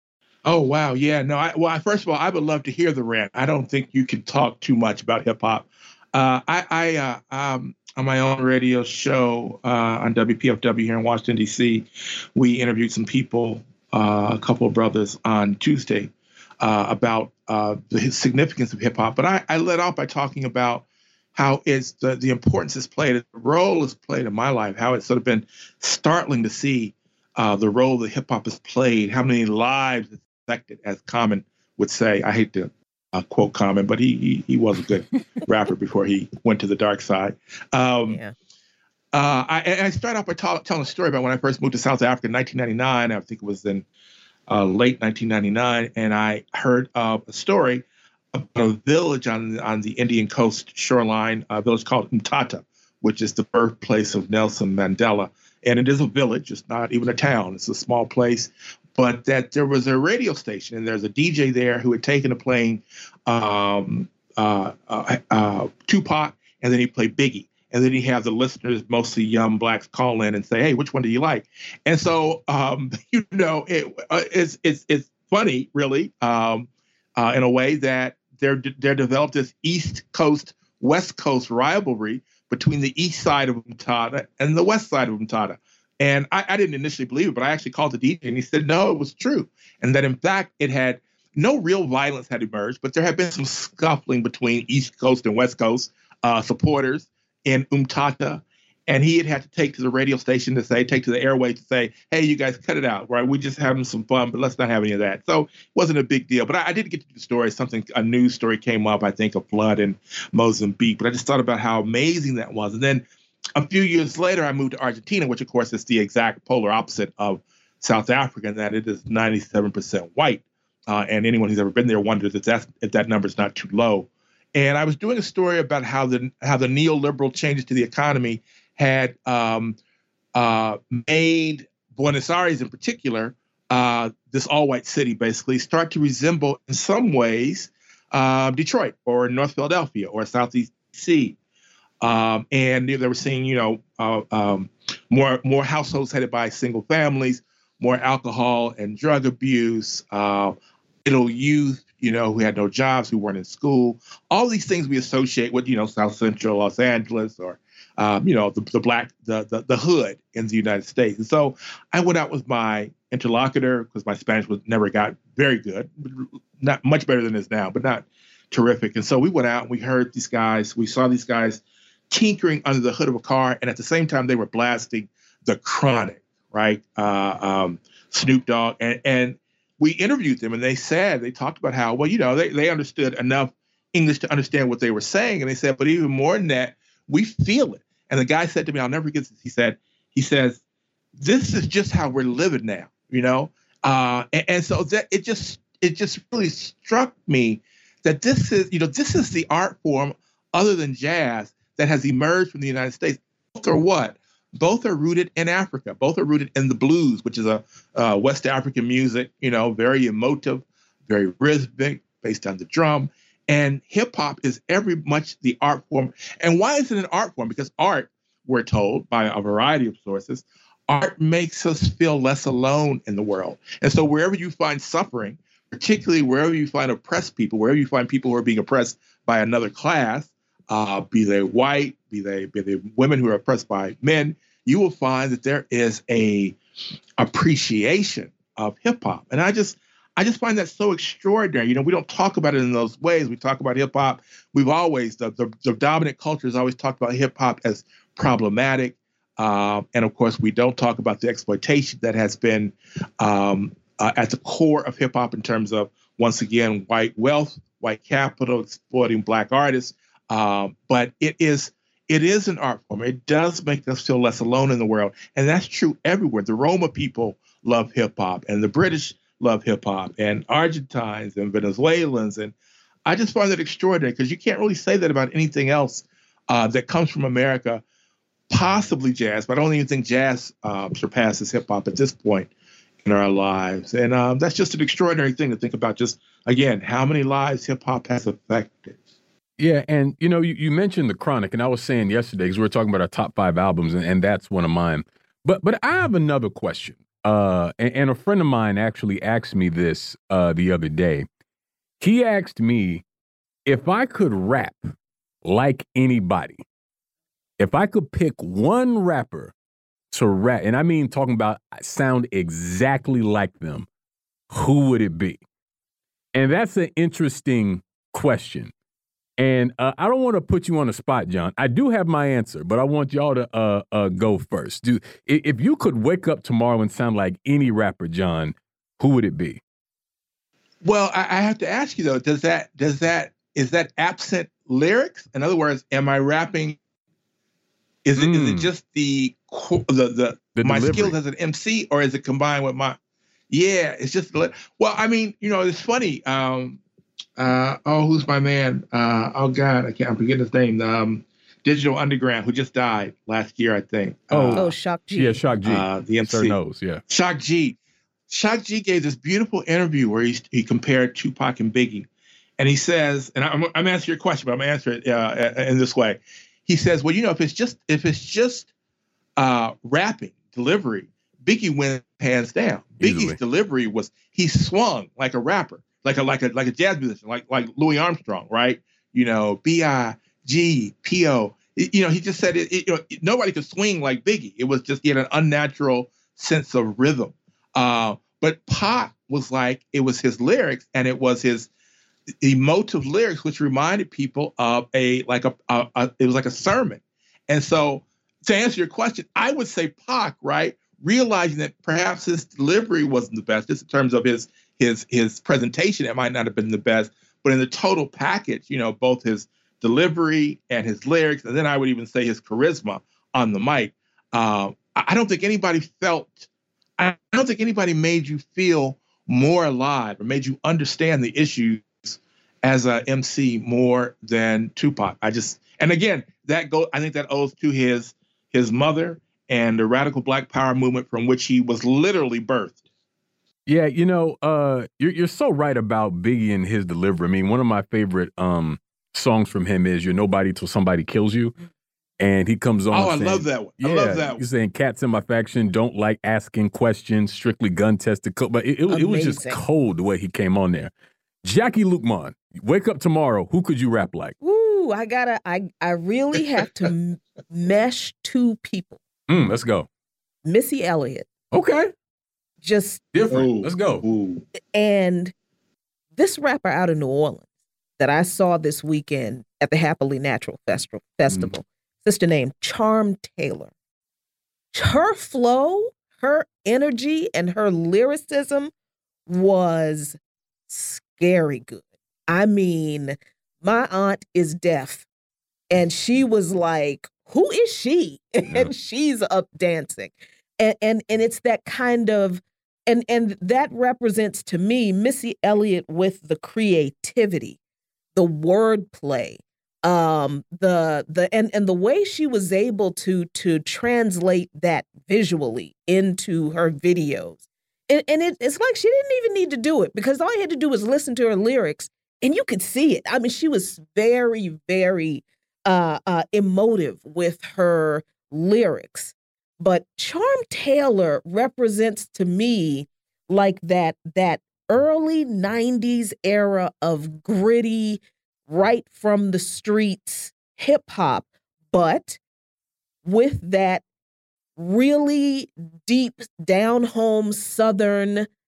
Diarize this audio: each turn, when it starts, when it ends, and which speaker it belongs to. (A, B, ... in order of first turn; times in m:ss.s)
0:00.4-0:38.2 A
0:39.1-0:43.8 A
0:44.5-2:09.8 A
2:10.3-2:21.4 A
2:22.0-3:10.6 A
3:11.2-3:56.6 A
3:57.2-4:32.5 A
4:33.0-4:37.8 A
4:38.5-4:42.5 A
4:43.0-4:49.0 A
4:49.6-5:01.3 B
5:02.0-5:03.0 B
5:03.7-5:04.9 B
5:05.4-5:06.6 B
5:07.6-5:09.5 B
5:10.1-5:13.9 B
5:14.5-5:15.4 B
5:16.3-5:18.7 B
5:19.4-5:29.6 B
5:30.8-5:36.8 A
5:38.0-5:43.0 A
5:38.2-5:38.7 B
5:40.6-5:41.2 B
5:43.5-5:46.8 A
5:47.4-5:54.6 A
5:54.3-5:57.0 B
5:54.5-5:55.4 C
5:55.6-5:56.6 A
5:57.1-5:57.8 A
5:58.3-6:08.7 A
6:09.4-6:31.7 A
6:13.0-6:13.4 B
6:32.4-7:12.8 A
7:13.6-7:21.5 B
7:22.2-7:30.9 B
7:22.9-7:24.4 A
7:28.9-7:29.6 C
7:31.4-7:34.3 B
7:34.4-7:39.0 C
7:39.3-7:39.9 B
7:40.4-7:41.3 C
7:41.5-7:41.9 B
7:42.6-7:43.1 C
7:43.1-7:44.0 B
7:43.3-7:44.4 A
7:44.7-7:45.3 C
7:46.2-7:47.4 C
7:48.0-7:53.7 C
7:54.7-7:58.7 C
7:59.3-8:00.2 C
8:00.7-8:05.1 C
8:05.7-8:17.6 C
8:18.1-8:52.2 C
8:53.0-8:53.8 C
8:54.6-8:58.3 C